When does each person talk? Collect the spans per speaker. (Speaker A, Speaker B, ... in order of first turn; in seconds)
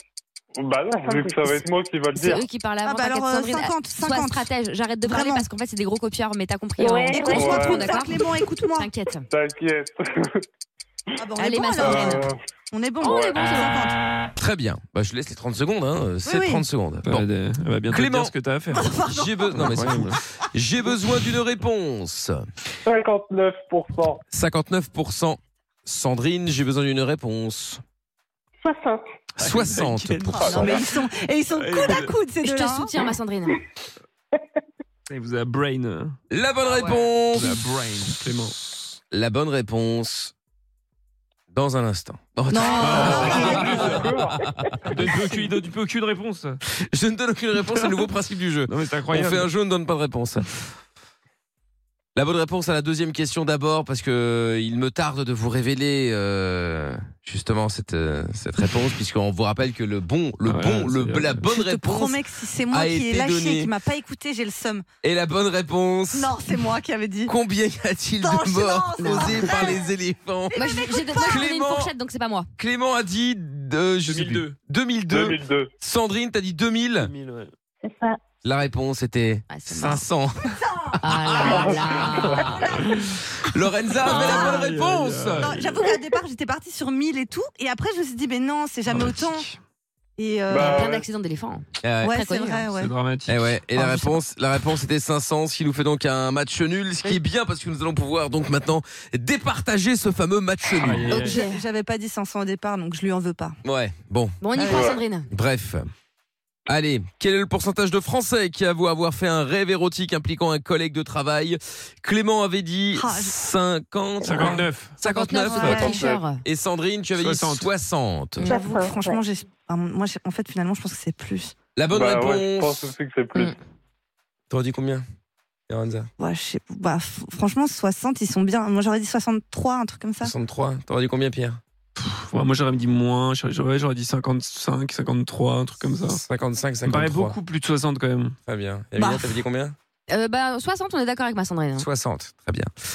Speaker A: 0.6-2.4, 7.3-8.0, 9.3-10.4, 11.8-12.4, 13.0-13.5, 22.8-24.2, 30.4-30.9, 42.9-44.4, 75.1-75.7, 81.5-82.5, 90.5-91.0, 104.7-105.0, 115.7-116.2, 121.9-123.5
Speaker B: 0.8-1.6, 6.8-7.6, 28.6-29.0, 43.2-43.8, 44.9-45.3, 77.8-78.2, 114.2-114.5, 118.4-119.2
Speaker C: 2.1-9.2, 11.4-12.3, 13.0-13.8, 32.4-33.6, 42.6-43.5, 69.0-69.4, 70.5-72.5, 79.5-80.0, 81.0-82.6, 90.5-92.7, 101.1-101.4, 104.4-105.3, 115.0-116.4, 140.1-141.8
Speaker D: 2.8-4.5, 5.0-5.5, 7.1-8.9, 11.2-13.9, 16.2-16.6, 18.7-19.7, 30.3-32.9, 42.5-44.1, 61.4-64.8, 66.1-67.3, 68.2-69.9, 70.5-71.4, 82.0-82.9, 84.1-84.6, 85.4-89.5, 90.2-90.7, 92.0-92.9, 93.7-94.2, 101.1-103.5, 104.5-104.9, 112.9-113.3, 115.5-116.0, 118.5-121.5, 126.2-130.3, 139.0-139.4
Speaker E: 14.4-17.3, 17.9-18.3, 19.1-22.4, 24.3-27.8, 29.4-30.7, 36.3-38.5, 39.1-40.3, 41.5-45.1, 46.7-50.5, 52.1-63.7, 65.0-66.4, 67.2-70.6, 71.2-71.9, 72.6-77.1, 78.4-81.6, 83.4-85.5, 91.8-92.2, 93.3-101.1, 103.6-104.4, 105.3-105.8, 106.7-115.9, 116.4-118.5, 121.8-122.9, 124.5-125.0, 125.7-126.1, 130.2-131.6, 136.0-137.4, 138.5-139.8, 141.8-142.7
Speaker F: 17.0-18.9, 19.5-20.2, 29.4-32.1, 35.1-36.2, 37.3-38.6, 42.8-44.0, 44.9-46.6, 47.6-47.9, 48.7-49.5, 60.4-61.4, 74.1-74.5, 77.0-77.5, 84.0-85.8, 88.9-89.6, 92.7-93.5, 100.8-101.5, 114.2-115.0, 117.2-117.7, 132.0-136.2, 136.8-138.3